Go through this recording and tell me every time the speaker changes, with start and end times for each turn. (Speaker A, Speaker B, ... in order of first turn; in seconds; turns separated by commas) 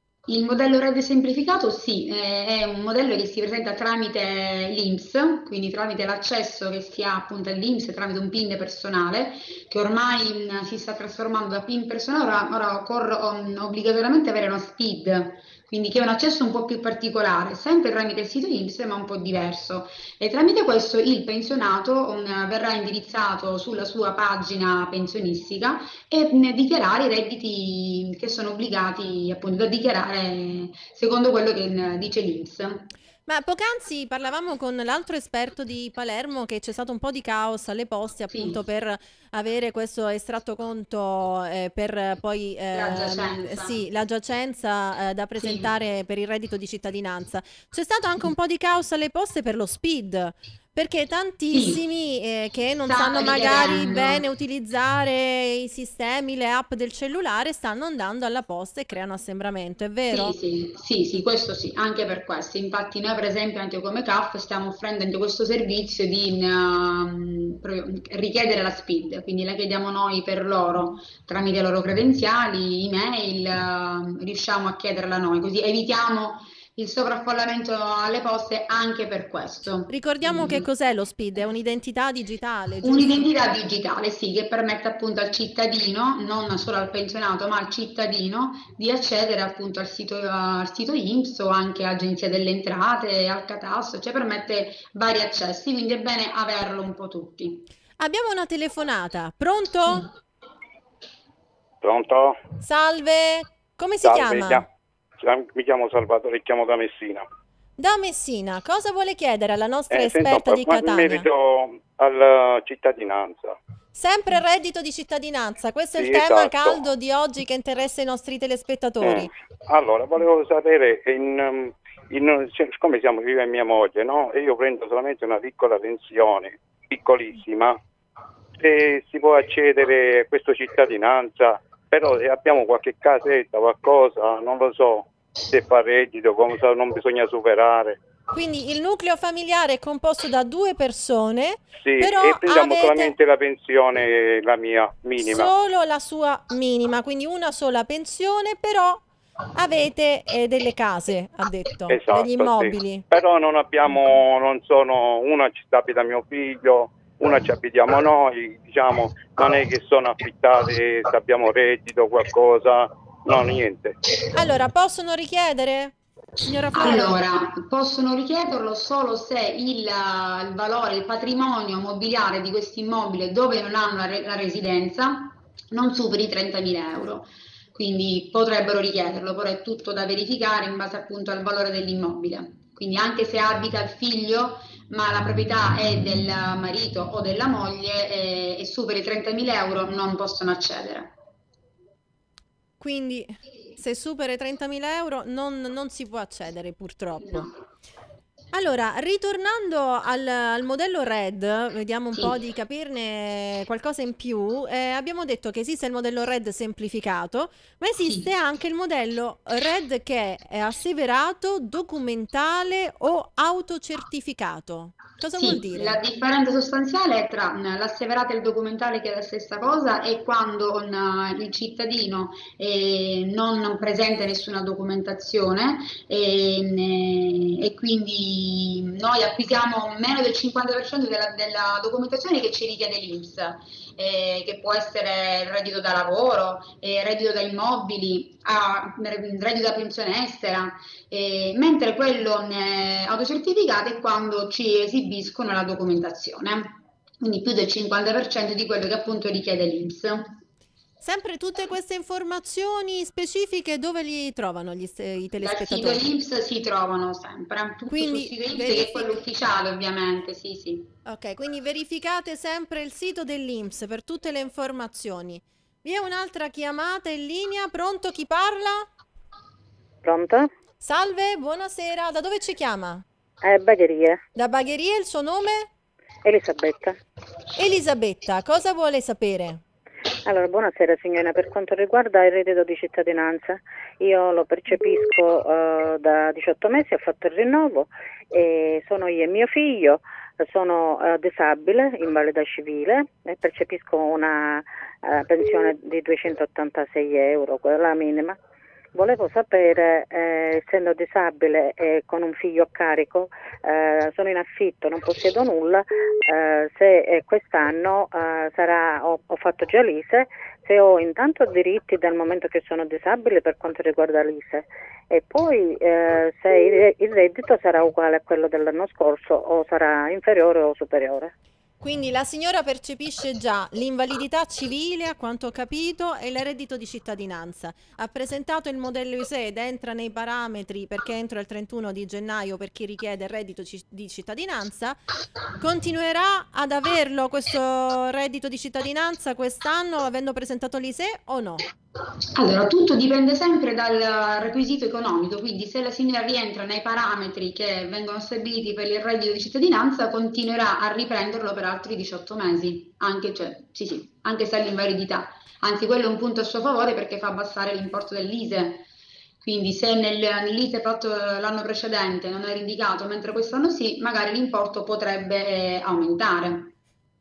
Speaker A: 0.3-32.9, Speaker B: 33.3-60.4, Speaker A: 38.3-38.6, Speaker A: 42.7-43.8, Speaker A: 45.4-45.7, Speaker A: 51.5-51.8, Speaker A: 52.9-54.2, Speaker A: 60.1-80.7, Speaker B: 79.9-83.3, Speaker A: 82.8-97.7, Speaker B: 98.0-100.1, Speaker C: 101.8-102.4, Speaker B: 102.6-104.6, Speaker C: 104.0-104.7, Speaker C: 105.2-107.2, Speaker B: 107.8-111.3, Speaker C: 109.9-113.6, Speaker B: 113.9-119.3, Speaker C: 116.0-116.8, Speaker C: 119.0-127.8, Speaker C: 128.6-138.0, Speaker B: 138.3-143.1, Speaker C: 141.8-145.5, Speaker B: 145.2-149.0, Speaker B: 149.5-153.0, Speaker C: 151.9-163.9, Speaker B: 164.3-167.2, Speaker A: 166.7-191.1, Speaker B: 192.8-197.5, Speaker B: 198.5-216.0, Speaker A: 208.0-208.3, Speaker A: 215.3-250.3, Speaker B: 251.0-256.0, Speaker A: 255.4-260.9, Speaker B: 257.9-259.2, Speaker B: 261.1-268.9, Speaker D: 270.0-270.5, Speaker B: 270.8-273.0, Speaker D: 273.4-274.2, Speaker B: 274.3-275.7, Speaker D: 276.2-277.0, Speaker B: 277.6-279.6, Speaker D: 280.2-298.4, Speaker D: 298.9-321.3, Speaker B: 321.8-335.0, Speaker B: 335.6-341.6, Speaker A: 342.3-358.9, Speaker A: 359.4-366.7